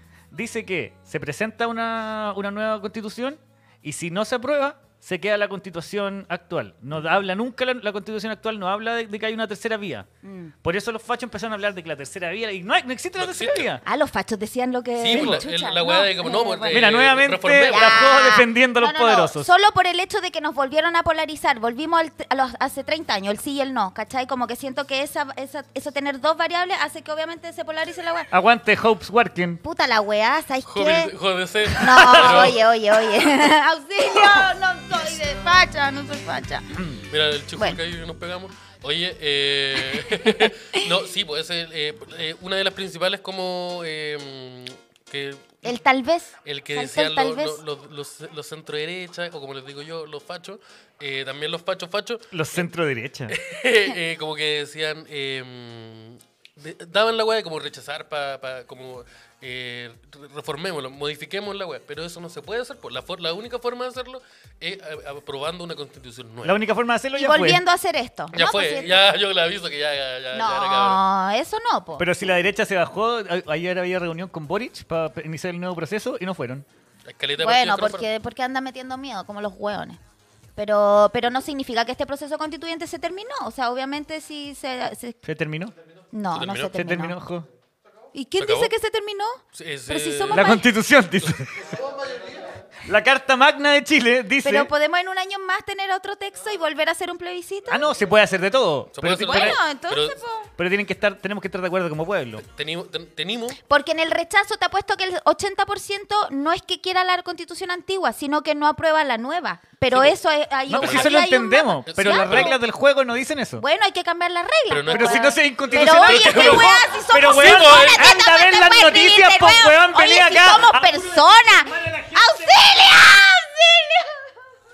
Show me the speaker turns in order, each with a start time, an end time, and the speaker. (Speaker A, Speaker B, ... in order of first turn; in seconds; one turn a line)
Speaker A: 0.3-10.1
Speaker B: 10.2-10.5
Speaker A: 10.6-13.8
Speaker C: 13.2-13.7
Speaker B: 13.8-17.0
Speaker C: 15.0-18.0
Speaker A: 15.1-15.4
Speaker A: 16.7-19.5
Speaker B: 17.7-28.3
Speaker A: 28.3-29.6
Speaker B: 29.6-31.1
Speaker C: 30.6-32.6
Speaker B: 31.7-36.8
Speaker A: 31.9-32.5
Speaker C: 37.1-45.6
Speaker B: 40.0-40.8
Speaker B: 45.6-47.6
Speaker C: 46.4-52.4
Speaker A: 52.3-53.3
Speaker C: 53.3-66.6
Speaker A: 66.4-67.6
Speaker B: 67.2-69.0
Speaker C: 68.3-71.0
Speaker B: 70.3-72.1
Speaker A: 72.0-76.7
Speaker C: 77.0-78.1
Speaker B: 77.4-80.0
Speaker B: 80.5-85.2
Speaker A: 85.2-85.7
Speaker B: 86.1-87.2
Speaker C: 86.3-86.7
Speaker A: 86.7-87.5
Speaker B: 88.1-90.7
Speaker C: 88.4-88.7
Speaker C: 89.5-90.6
Speaker A: 90.3-91.5
Speaker C: 92.0-92.3
Speaker A: 92.8-94.7
Speaker B: 94.4-97.9
Speaker A: 97.7-99.6
Speaker C: 98.9-100.2
Speaker B: 99.2-100.5
Speaker A: 100.6-102.4
Speaker C: 102.4-103.6
Speaker B: 103.7-112.6
Speaker A: 110.7-113.6
Speaker C: 110.8-111.2
Speaker C: 111.9-112.5
Speaker B: 113.6-124.2
Speaker C: 114.7-118.0
Speaker A: 114.9-122.8